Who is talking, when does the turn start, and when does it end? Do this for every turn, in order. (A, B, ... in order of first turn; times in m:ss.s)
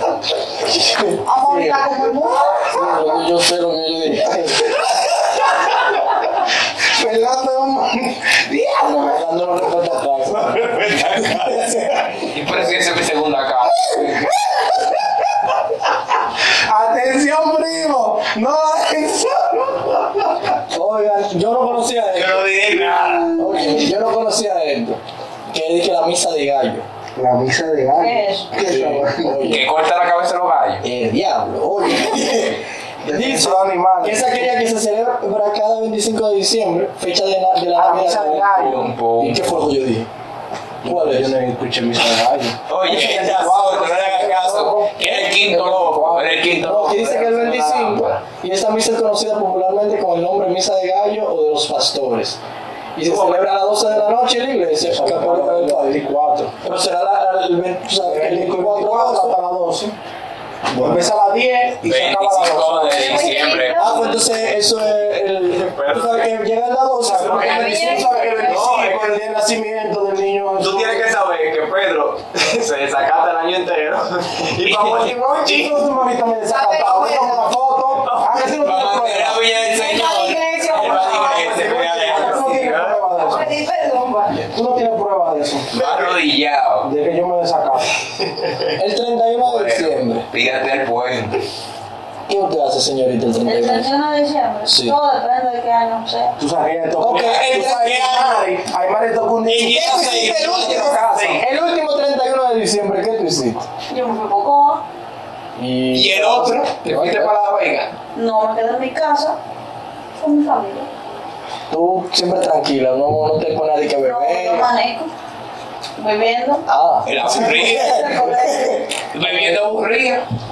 0:00.7-0:01.8 A
0:01.2-0:02.6 B
0:02.7-0:04.7 A
0:04.7-0:05.8 C
0:06.8-0:09.2 C
0:09.0-0:10.4 A
0:10.3-0:12.3 C
0:11.5-0:11.8 A
0:12.3-0:14.4 D
0:13.6-0:15.1 C
0:16.4-0:20.6 C
0:20.7-0:22.4 A
0:22.1-0:23.4 D
0:23.4-0:25.0 A
0:25.5-0:26.9 A
0:27.2-0:29.5 C
0:28.0-0:28.5 B
0:28.6-0:29.6 A
0:29.4-0:30.8 D
0:30.8-0:40.1 A
0:33.0-0:34.5 C
0:37.7-0:38.9 C
0:38.4-0:39.7 D
0:40.8-0:41.3 A
0:40.8-0:46.8 C
0:42.7-0:48.2 D
0:46.6-0:52.4 A
0:53.0-0:56.0 A
0:53.0-0:53.9 C
0:54.8-0:56.6 C
0:56.6-0:59.4 A
0:58.0-1:00.0 C
1:00.7-1:01.1 A
1:00.7-1:03.3 C
1:01.8-1:04.3 D
1:02.9-1:04.2 E
1:03.7-1:08.4 A
1:05.6-1:06.3 F
1:07.0-1:11.1 C
1:07.2-1:09.2 F
1:07.3-1:08.7 E
1:10.6-1:15.8 F
1:14.6-1:15.0 D
1:15.4-1:19.5 C
1:16.5-1:17.2 E
1:16.9-1:17.3 F
1:18.4-1:23.0 D
1:19.7-1:21.6 B
1:20.7-1:23.0 F
1:21.5-1:23.5 C
1:23.2-1:24.4 E
1:24.3-1:25.7 C
1:25.7-1:26.9 D
1:25.7-1:26.2 F
1:26.8-1:27.9 C
1:28.8-1:30.2 A
1:29.4-1:31.4 D
1:32.3-1:33.9 A
1:33.4-1:36.3 B
1:34.7-1:35.0 A
1:36.4-1:41.4 C
1:37.0-1:37.7 A
1:37.1-1:38.5 D
1:39.4-1:41.4 D
1:39.9-1:43.6 A
1:43.9-1:44.8 B
1:45.6-1:47.3 A
1:45.9-1:47.9 D
1:48.2-1:49.4 B
1:50.2-1:50.9 B
1:51.7-1:54.7 A
1:54.0-1:55.1 B
1:56.0-1:56.6 B
1:56.7-1:59.7 A
1:57.0-1:58.3 D
1:57.4-1:58.8 B
1:59.1-2:00.2 D